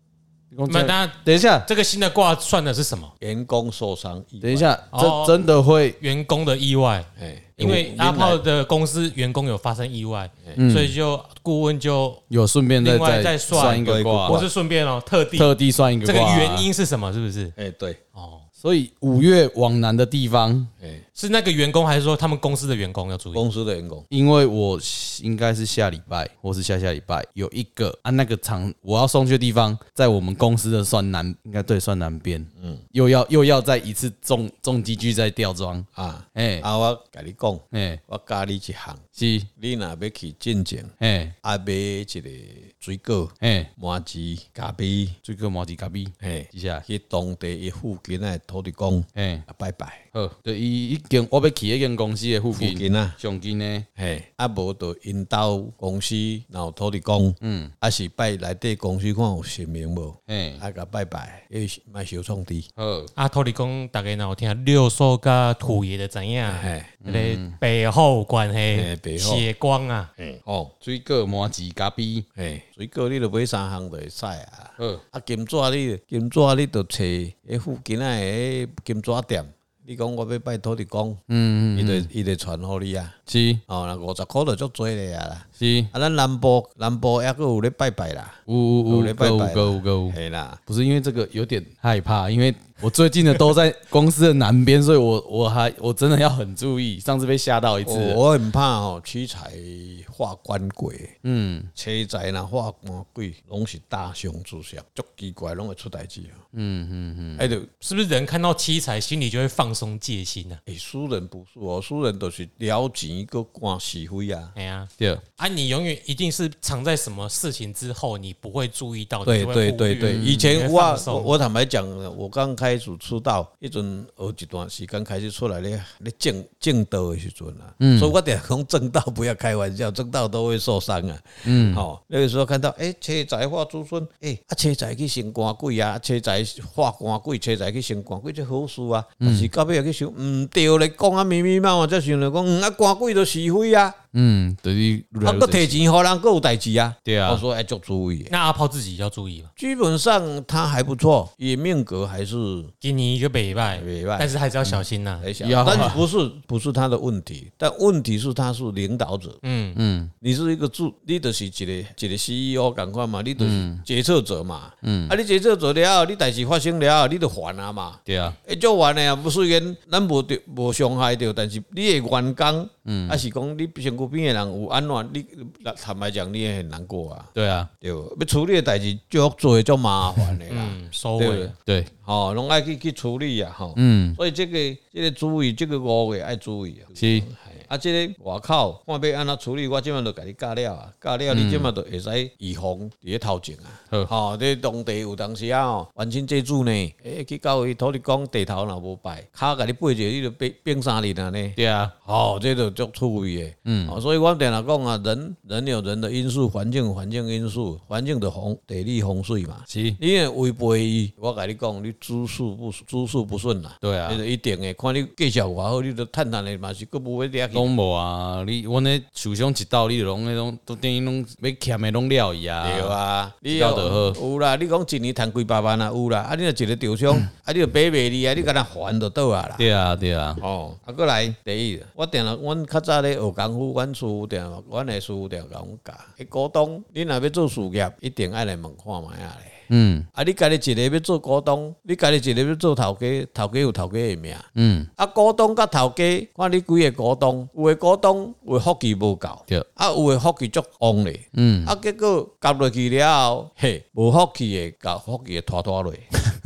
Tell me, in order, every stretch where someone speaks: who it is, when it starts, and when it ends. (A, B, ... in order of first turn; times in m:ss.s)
0:00.5-0:01.7 A
0:00.7-0:03.1 B
0:03.2-0:04.8 C
0:04.4-0:06.0 A
0:04.9-0:05.5 B
0:06.0-0:12.2 B
0:07.2-0:08.4 C
0:10.6-0:11.0 A
0:12.3-0:14.4 A
0:12.8-0:17.5 B
0:13.5-0:14.5 C
0:15.4-0:16.7 A
0:17.6-0:18.0 C
0:18.2-0:18.4 B
0:18.6-0:20.7 A
0:21.2-0:23.4 B
0:23.3-0:24.1 C
0:24.1-0:36.7 A
0:36.0-0:39.0 C
0:37.7-0:38.0 A
0:39.2-0:39.5 A
0:39.6-0:45.2 C
0:41.0-0:41.3 A
0:43.4-0:43.7 A
0:45.2-0:46.8 A
0:46.2-0:50.0 C
0:49.2-0:49.4 A
0:50.1-0:53.9 A
0:52.5-0:53.2 C
0:54.0-1:02.7 C
0:57.4-0:57.7 A
1:00.3-1:00.6 A
1:02.8-1:03.1 A
1:03.2-1:10.1 B
1:06.4-1:06.9 C
1:07.0-1:07.6 A
1:08.7-1:09.5 C
1:10.2-1:10.7 C
1:10.8-1:12.3 A
1:12.4-1:21.2 C
1:21.3-1:22.1 A
1:21.7-1:23.2 C
1:23.3-1:23.6 A
1:23.7-1:30.6 C
1:25.6-1:25.9 A
1:28.5-1:38.2 A
1:37.8-1:41.2 C
1:41.2-1:41.7 A
1:41.8-1:46.4 C
1:46.5-1:47.4 A
1:47.4-1:47.7 C
1:47.8-1:50.6 B
1:50.7-1:54.5 C
1:54.6-2:01.4 B
1:59.3-2:24.0 C
2:07.8-2:08.2 A
2:11.4-2:11.8 A
2:19.2-2:19.5 A
2:24.1-2:25.8 A
2:25.2-2:28.3 C
2:27.0-2:27.4 A
2:28.3-2:29.5 B
2:29.6-2:32.7 C
2:32.8-2:35.3 B
2:33.8-2:34.3 C
2:35.2-2:39.4 C
2:35.4-2:36.0 A
2:39.4-2:39.8 B
2:39.8-2:40.1 A
2:40.2-3:37.7 C
2:43.4-2:43.8 A
2:44.8-2:45.2 A
2:48.1-2:48.4 A
2:52.9-2:53.2 A
2:57.4-2:57.7 A
3:00.5-3:01.6 B
3:01.6-3:01.9 A
3:03.8-3:04.2 A
3:07.0-3:07.3 A
3:11.3-3:11.7 A
3:21.6-3:21.9 A
3:23.6-3:24.0 A
3:29.7-3:30.0 A
3:33.8-3:34.2 A
3:37.5-3:43.0 A
3:42.6-3:49.7 C
3:43.5-3:44.2 A
3:49.6-3:50.4 A
3:50.4-4:16.1 C
3:59.7-4:00.1 A
4:04.6-4:04.9 A
4:11.3-4:11.7 A